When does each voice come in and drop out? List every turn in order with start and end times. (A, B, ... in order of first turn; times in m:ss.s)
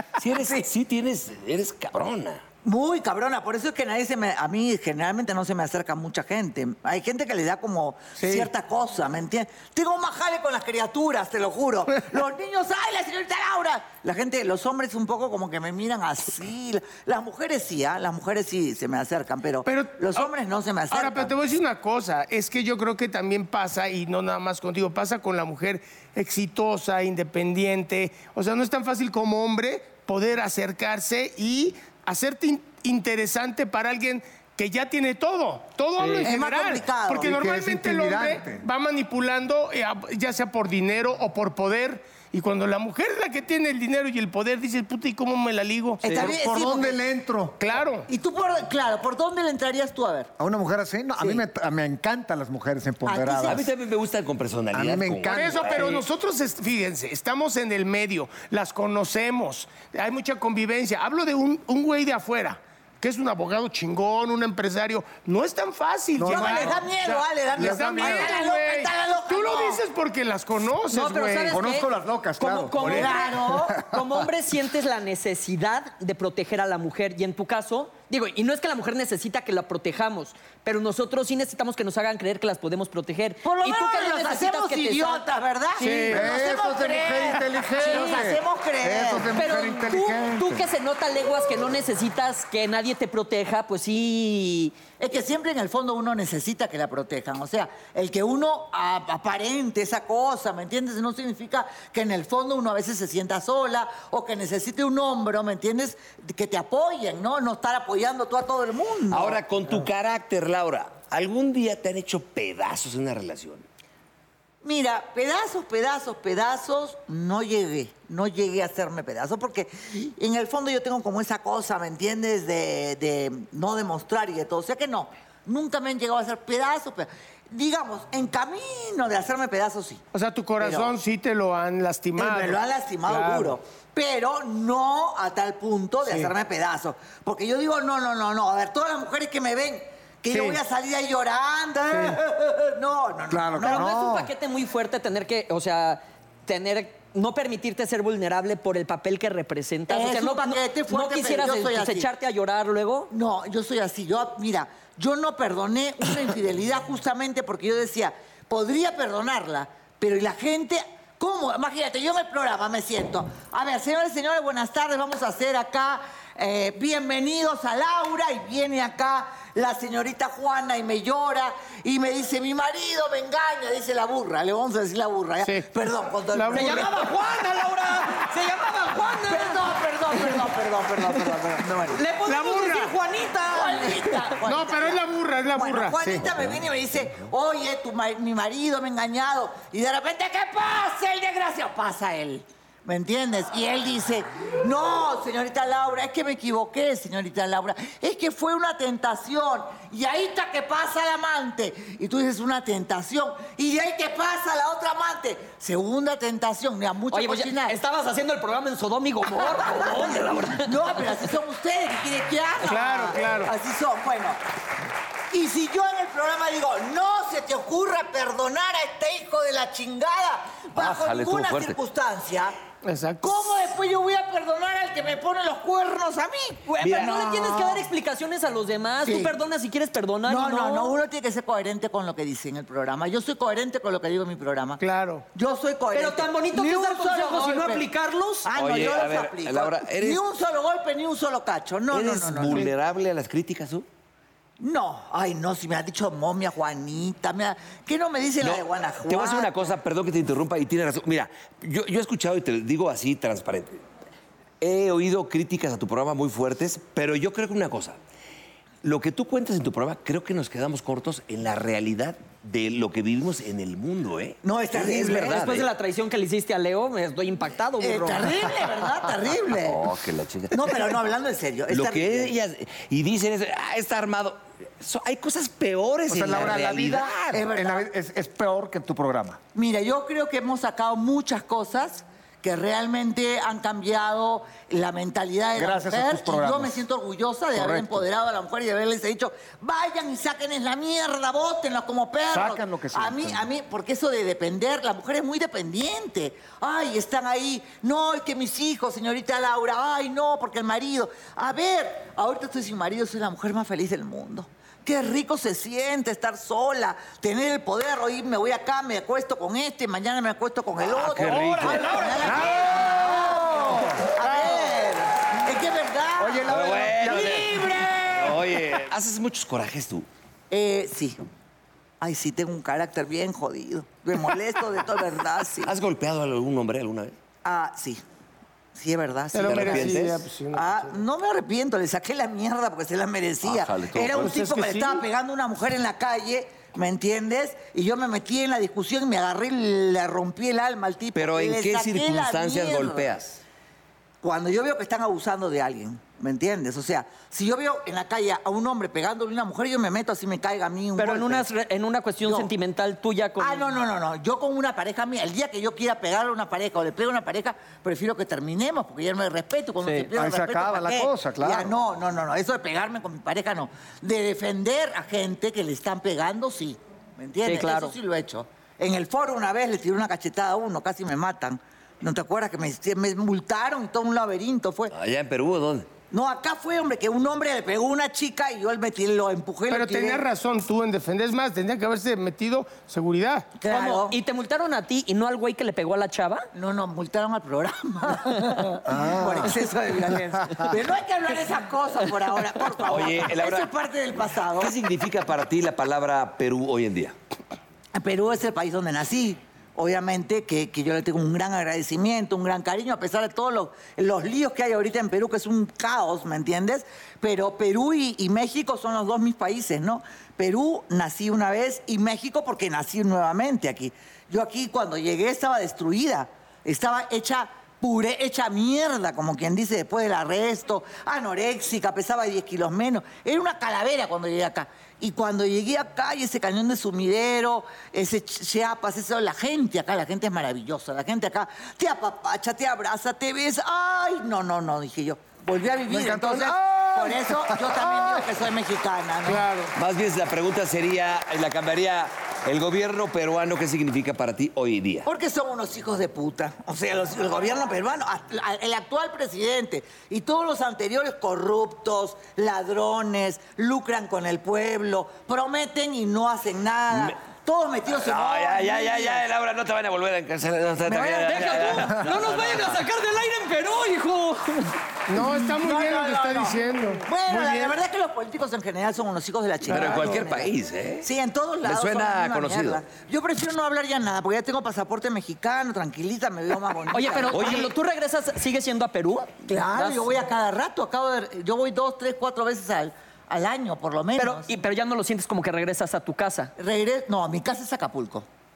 0:00.2-0:02.4 A
0:02.6-0:21.3 B
0:08.2-0:08.4 C
0:19.6-0:20.3 C
0:20.9-0:46.8 C
0:36.0-0:36.3 D
0:36.2-0:37.3 B
0:37.2-0:38.6 E
0:46.0-0:47.0 B
0:46.1-0:47.6 E
0:47.6-0:48.1 C
0:48.1-0:50.3 B
0:50.4-0:53.7 E
0:53.0-0:53.6 B
0:53.4-0:56.0 A
0:54.7-0:56.0 E
0:55.3-1:11.6 C
1:06.2-1:06.9 E
1:06.3-1:09.8 B
1:07.5-1:08.3 E
1:10.9-1:25.2 D
1:11.5-1:14.2 E
1:12.8-1:13.8 B
1:23.4-1:29.3 B
1:25.8-1:26.3 C
1:25.8-1:26.1 D
1:26.1-1:30.7 E
1:29.3-1:34.8 D
1:35.0-1:49.4 B
1:49.1-1:53.6 A
1:54.6-2:10.0 B
2:10.1-2:13.5 C
2:10.6-2:10.9 B
2:12.2-2:23.9 B
2:16.0-2:16.3 C
2:20.3-2:20.6 C
2:21.9-2:22.2 C
2:23.3-2:24.3 E
2:23.6-2:33.1 D
2:29.9-2:32.1 B
2:33.1-2:56.9 B
2:55.4-2:55.7 C
2:56.3-2:56.9 C
2:56.5-2:59.6 D
2:59.3-3:02.0 B
3:01.9-3:04.2 D
3:02.2-3:02.9 C
3:03.4-3:27.8 B
3:04.4-3:06.0 C
3:27.1-3:31.1 D
3:29.3-3:34.4 B
3:32.6-3:33.5 C
3:35.3-3:42.6 B
3:40.8-3:41.8 A
3:42.8-3:43.5 C
3:43.2-3:47.8 B
3:46.7-3:51.0 D
3:46.8-3:47.1 A
3:49.0-3:49.3 B
3:50.2-3:54.8 B
3:54.8-3:55.2 C
3:55.3-3:57.8 B
3:55.9-3:58.5 D
3:58.4-4:02.7 B
3:58.6-4:00.2 A
4:01.9-4:03.8 A
4:04.6-4:09.5 B
4:08.4-4:13.8 A
4:14.6-4:18.0 A
4:18.8-4:25.7 A
4:24.4-4:25.4 B
4:25.0-4:28.3 D
4:27.8-4:29.8 B
4:29.5-4:31.0 A
4:30.5-4:32.3 B
4:31.7-4:37.4 A
4:36.1-4:39.4 E
4:37.3-4:37.8 B
4:39.5-5:18.4 B
4:45.6-4:46.8 E
4:47.5-4:48.1 E
4:52.3-4:53.5 E
5:10.8-5:12.6 A
5:11.4-5:11.8 C
5:11.8-5:12.2 D
5:12.2-5:14.5 E
5:16.2-5:17.8 E
5:16.5-5:20.1 A
5:20.5-5:21.2 B
5:22.0-5:25.7 B
5:25.6-5:27.2 A
5:27.4-5:28.0 B
5:28.7-5:43.1 B
5:29.3-5:30.9 C
5:29.4-5:30.2 A
5:33.4-5:34.3 A
5:34.2-5:35.0 C
5:41.1-5:43.4 A
5:44.2-5:51.4 B
5:51.0-5:53.6 D
5:52.2-5:52.5 B
5:53.4-6:14.9 B
5:59.8-6:00.1 D
6:00.2-6:01.7 E
6:07.4-6:07.9 D
6:14.9-6:15.9 A
6:16.1-6:20.2 B
6:19.7-6:23.5 C
6:23.6-6:24.2 B
6:23.7-6:26.4 D
6:26.5-6:34.7 B
6:28.8-6:29.6 E
6:30.4-6:30.7 E
6:32.8-6:33.7 A
6:34.6-6:37.1 A
6:37.9-7:19.5 B
7:15.9-7:18.3 E
7:19.2-7:19.7 C
7:19.8-7:25.1 A
7:25.0-7:39.2 B
7:36.9-7:37.2 A
7:37.9-7:42.8 A
7:40.9-7:41.8 B
7:41.2-7:44.8 D
7:45.1-7:47.8 C
7:45.1-7:57.7 B
7:49.7-7:51.1 A
7:49.7-7:50.1 C
7:51.6-7:52.8 A
7:56.9-8:00.1 D
7:57.3-7:57.7 A
7:59.5-8:04.5 B
8:04.2-8:06.5 D
8:06.6-8:08.2 B